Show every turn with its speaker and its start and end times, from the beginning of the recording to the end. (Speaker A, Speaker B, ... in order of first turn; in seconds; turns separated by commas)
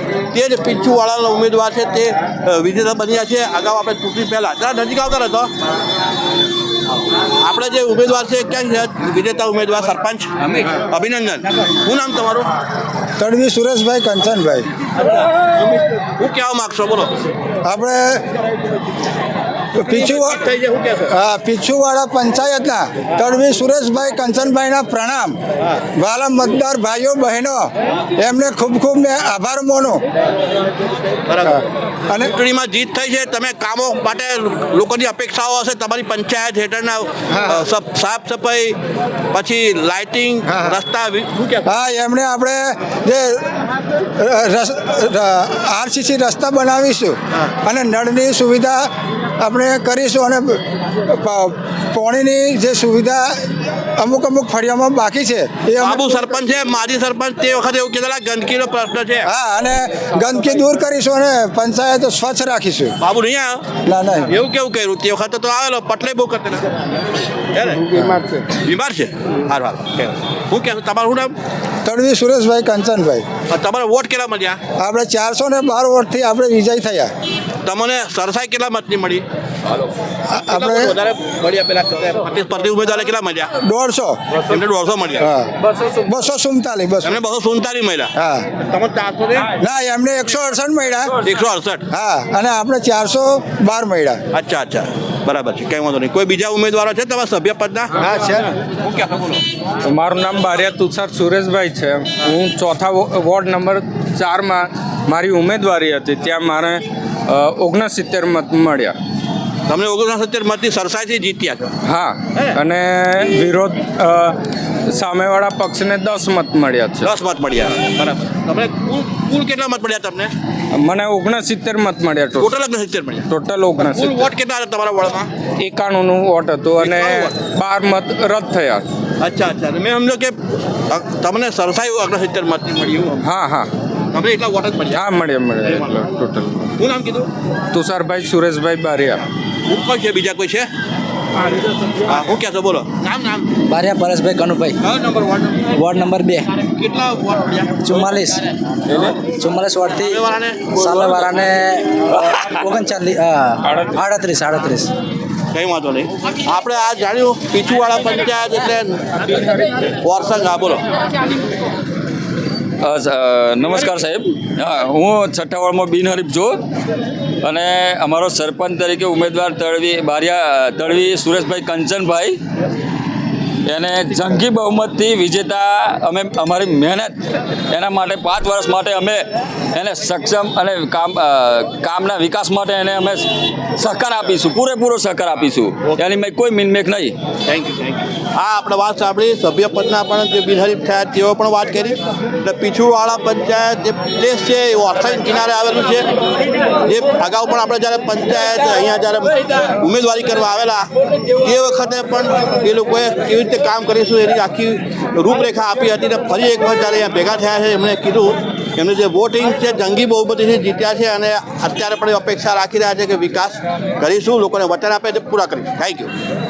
Speaker A: 0.3-5.5, Speaker A: 7.4-12.5, Speaker B: 13.2-14.7, Speaker A: 15.1-17.1, Speaker B: 17.6-18.2, Speaker B: 19.8-20.4, Speaker A: 19.8-21.1, Speaker B: 21.1-25.4, Speaker B: 25.9-30.0, Speaker A: 31.3-31.6, Speaker B: 31.5-32.3, Speaker A: 32.2-38.8, Speaker B: 37.3-37.7, Speaker A: 39.3-41.7, Speaker B: 40.5-40.8, Speaker B: 41.6-48.9, Speaker B: 49.4-56.2, Speaker A: 55.8-59.3, Speaker B: 59.2-63.0, Speaker A: 63.0-63.6, Speaker B: 63.8-64.4, Speaker A: 64.2-66.8, Speaker A: 67.5-67.9, Speaker C: 67.9-68.5, Speaker A: 68.5-71.4, Speaker B: 71.8-73.2, Speaker A: 73.5-74.6, Speaker B: 74.8-77.1, Speaker A: 77.6-79.2, Speaker B: 80.3-80.9, Speaker A: 80.4-83.5, Speaker B: 83.6-84.3, Speaker A: 84.3-85.3, Speaker B: 85.2-87.2, Speaker A: 87.0-89.5, Speaker B: 88.2-88.5, Speaker B: 89.6-91.2, Speaker A: 91.2-91.8, Speaker B: 91.9-94.2, Speaker A: 94.3-98.0, Speaker B: 98.0-98.5, Speaker A: 98.6-99.4, Speaker C: 99.8-109.0, Speaker A: 109.7-111.7, Speaker C: 111.8-117.1, Speaker A: 112.3-112.6, Speaker A: 117.0-120.3, Speaker C: 120.7-122.5, Speaker A: 122.4-125.3, Speaker C: 123.3-124.3, Speaker C: 125.6-128.8, Speaker A: 126.8-127.3, Speaker A: 129.2-133.2, Speaker C: 133.2-133.7, Speaker A: 134.1-135.1, Speaker C: 134.9-136.7, Speaker A: 136.8-137.3, Speaker C: 137.7-139.2, Speaker A: 139.7-140.7, Speaker A: 142.0-143.7, Speaker D: 143.7-144.8, Speaker A: 144.8-145.8, Speaker D: 145.7-146.5, Speaker A: 146.6-148.0, Speaker D: 147.8-154.9, Speaker A: 150.0-151.5, Speaker C: 153.7-154.0, Speaker A: 155.5-160.8, Speaker E: 162.8-166.6, Speaker E: 167.4-172.4, Speaker E: 173.7-183.2, Speaker E: 183.8-187.2, Speaker A: 187.5-196.1, Speaker A: 196.8-216.1